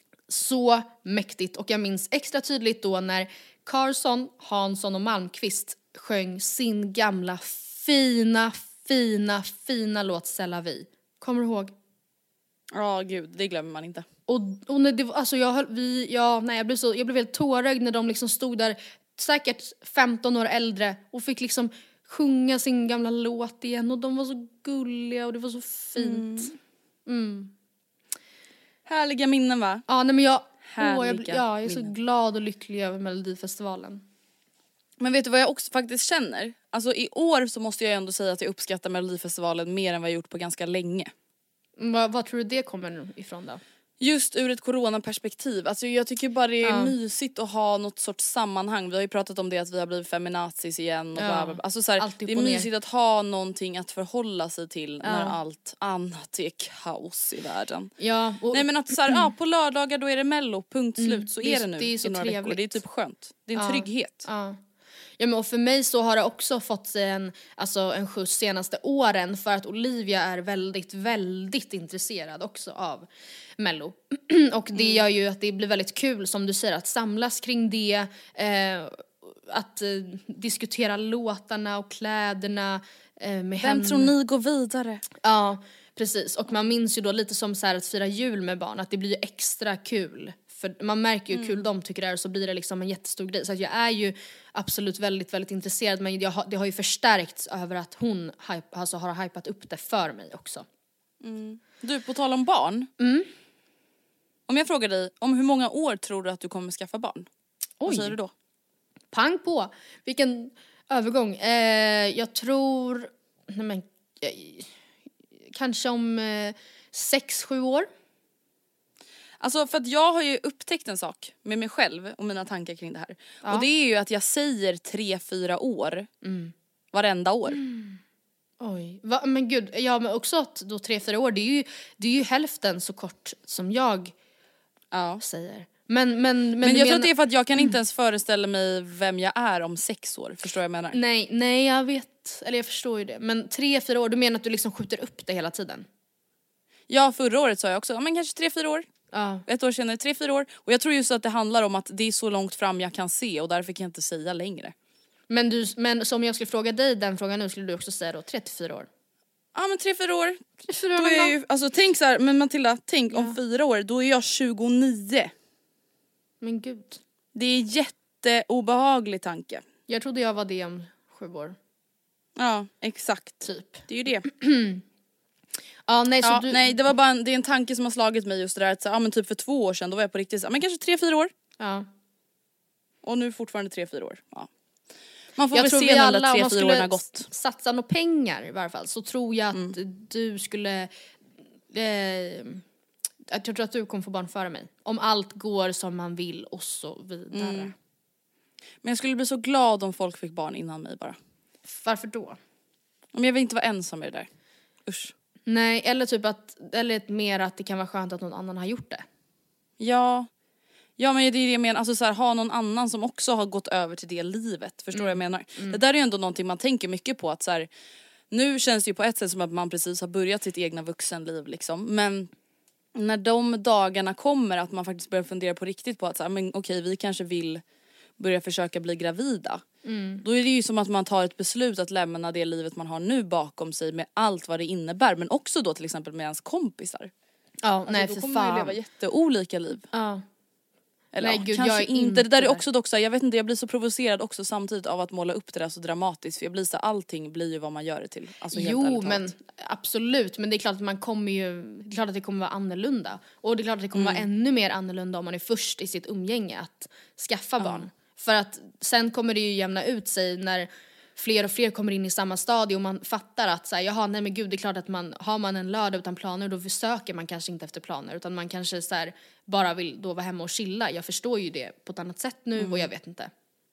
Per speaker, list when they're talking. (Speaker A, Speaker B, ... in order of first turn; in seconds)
Speaker A: 0.3-11.7, 14.3-26.5, 27.1-27.5, 29.9-34.0, 41.8-43.6, 46.6-46.9, 51.2-52.7, 55.0-55.4, 58.0-59.3, 61.0-62.8, 63.6-64.6, 65.2-73.1, 73.6-84.1, 85.2-100.7, 103.0-103.3, 107.8-108.2, 109.1-114.7, 115.5-117.9, 126.2-126.5, 127.5-128.0, 128.6-134.1, 135.2-137.7, 140.9-145.9, 149.1-149.4, 155.3-158.9, 160.7-161.4, 163.1-163.4, 166.4-167.0, 169.9-171.6, 173.4-174.8, 175.9-176.8, 181.6-181.9, 185.5-190.9, 191.7-192.6, 193.3-197.7, 201.7-202.4, 205.5-209.1, 214.9-215.8, 229.8-230.2, 237.6-238.8, 239.9-240.2, 241.2-242.6, 248.5-273.3
Speaker B: 12.7-14.1, 26.0-26.5, 28.9-29.9, 30.6-31.9, 35.0-41.1, 44.0-57.9, 58.5-64.3, 74.7-75.0, 83.6-85.0, 91.3-91.7, 101.2-102.9, 104.5-107.3, 107.8-108.3, 119.4-126.1, 126.9-127.6, 134.9-135.2, 136.6-141.0, 146.9-148.9, 149.5-154.7, 159.6-165.3, 167.3-169.6, 172.4-174.3, 176.2-181.3, 183.0-184.5, 185.4-187.3, 197.3-197.7, 198.8-201.2, 203.1-204.3, 204.9-205.1, 209.8-210.3, 211.0-217.7, 218.3-222.3, 222.9-227.6, 228.2-229.6, 230.2-237.1, 237.9-239.9, 241.1-249.3, 253.9-254.3, 257.6-257.9, 272.6-272.9